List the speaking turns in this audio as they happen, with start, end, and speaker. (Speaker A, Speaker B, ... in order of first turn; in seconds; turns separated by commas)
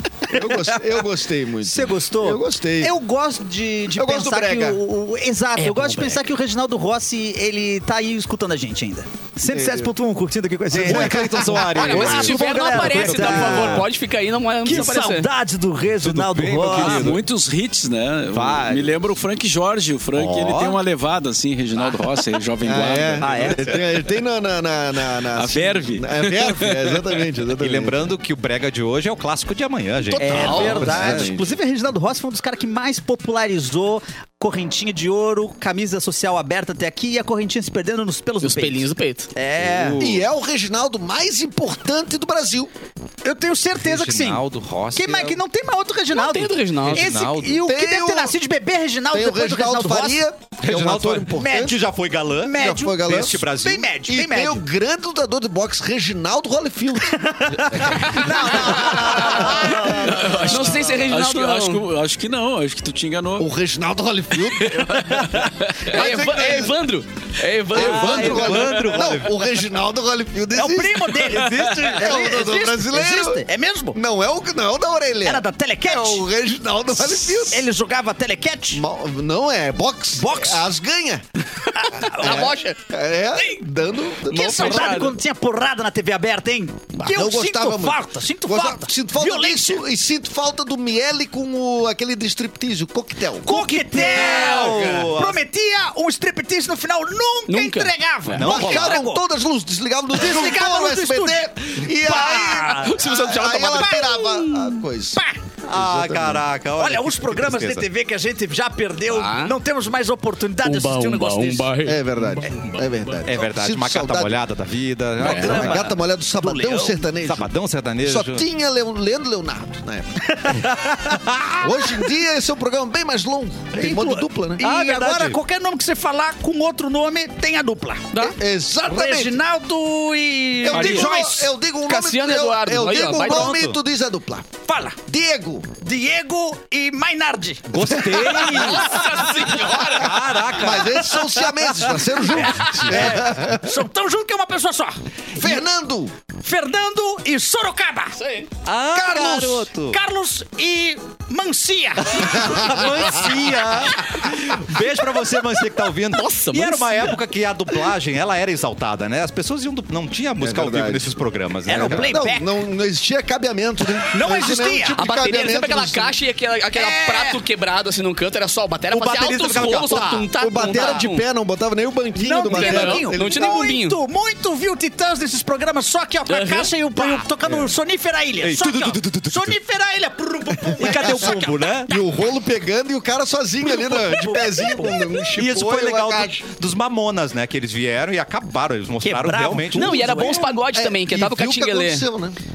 Speaker A: 0.3-2.9, Speaker B: 1.6-13.8, Speaker A: 3.9-4.8, Speaker C: 5.6-6.2, Speaker A: 9.5-9.9, Speaker A: 10.7-12.1, Speaker D: 10.7-13.8, Speaker C: 11.8-15.3, Speaker B: 14.6-17.2, Speaker D: 16.0-17.2, Speaker E: 16.7-23.6, Speaker D: 18.3-19.0, Speaker D: 20.1-20.8, Speaker A: 22.6-28.0, Speaker B: 23.2-23.6, Speaker E: 25.4-27.0, Speaker D: 27.6-31.3, Speaker B: 30.1-40.0, Speaker A: 30.3-31.4, Speaker E: 30.3-31.1, Speaker C: 38.4-39.3, Speaker D: 39.6-40.3, Speaker A: 40.0-42.7, Speaker B: 43.2-44.4, Speaker D: 43.8-45.4, Speaker B: 44.9-50.2, Speaker C: 46.1-47.1, Speaker D: 46.8-47.6, Speaker A: 47.6-48.3, Speaker A: 49.1-51.8, Speaker D: 50.6-53.9, Speaker B: 51.3-51.8, Speaker B: 52.4-54.6, Speaker A: 52.5-53.5, Speaker A: 54.0-58.3, Speaker B: 57.3-60.8, Speaker C: 58.9-61.8, Speaker D: 59.8-60.8, Speaker E: 59.9-63.5, Speaker A: 63.4-65.2, Speaker E: 64.9-65.9, Speaker A: 65.8-66.8, Speaker C: 65.9-68.7, Speaker A: 67.7-77.7, Speaker D: 67.7-69.5, Speaker B: 70.5-74.0, Speaker B: 75.2-76.2, Speaker B: 77.1-78.8, Speaker A: 78.7-81.2, Speaker B: 80.2-80.6, Speaker B: 81.7-82.6, Speaker C: 81.8-82.8, Speaker A: 82.2-85.1, Speaker B: 84.3-89.8, Speaker C: 84.3-85.1, Speaker A: 87.0-93.5, Speaker B: 93.4-99.2, Speaker D: 93.5-95.4, Speaker C: 94.2-95.0, Speaker C: 97.5-98.4, Speaker D: 98.3-99.0, Speaker A: 98.4-106.5, Speaker B: 100.1-103.0, Speaker C: 102.2-104.3, Speaker B: 103.7-104.6, Speaker D: 105.7-107.8, Speaker B: 106.8-111.7, Speaker C: 109.1-109.5, Speaker C: 110.6-112.0, Speaker A: 111.8-114.4, Speaker D: 113.2-115.9, Speaker A: 115.2-120.2, Speaker C: 115.2-115.6, Speaker B: 115.2-117.0, Speaker D: 117.2-118.4, Speaker B: 120.3-121.2, Speaker D: 121.1-121.6, Speaker A: 121.6-124.6, Speaker B: 123.8-128.3, Speaker D: 124.6-125.4, Speaker A: 128.3-129.4, Speaker B: 128.8-131.5, Speaker A: 130.6-134.5, Speaker E: 130.7-131.0, Speaker C: 130.8-131.1, Speaker C: 131.9-133.5, Speaker D: 133.3-133.7, Speaker B: 134.7-135.0, Speaker A: 135.1-135.7, Speaker B: 135.8-139.5, Speaker D: 137.7-141.2, Speaker C: 138.3-140.2, Speaker A: 140.5-143.7, Speaker B: 142.4-145.5, Speaker D: 142.8-143.2, Speaker A: 145.3-146.1, Speaker B: 146.4-148.2, Speaker C: 148.2-148.5, Speaker D: 148.6-150.0, Speaker B: 148.9-153.3, Speaker D: 152.1-162.1, Speaker C: 156.1-157.2, Speaker A: 160.4-161.2, Speaker B: 161.7-162.5, Speaker A: 161.7-166.1, Speaker B: 164.1-165.0, Speaker C: 165.0-171.2, Speaker B: 166.7-167.4, Speaker D: 168.9-170.2, Speaker B: 169.3-171.0, Speaker A: 170.4-173.4, Speaker B: 172.2-181.9, Speaker C: 172.5-174.0, Speaker C: 176.3-177.2, Speaker D: 177.4-177.7, Speaker D: 178.4-179.6, Speaker D: 180.8-181.9, Speaker A: 180.8-181.3, Speaker A: 181.9-186.4, Speaker B: 183.7-185.2, Speaker D: 185.3-190.3, Speaker B: 189.0-190.5, Speaker C: 189.7-192.0, Speaker A: 190.7-192.4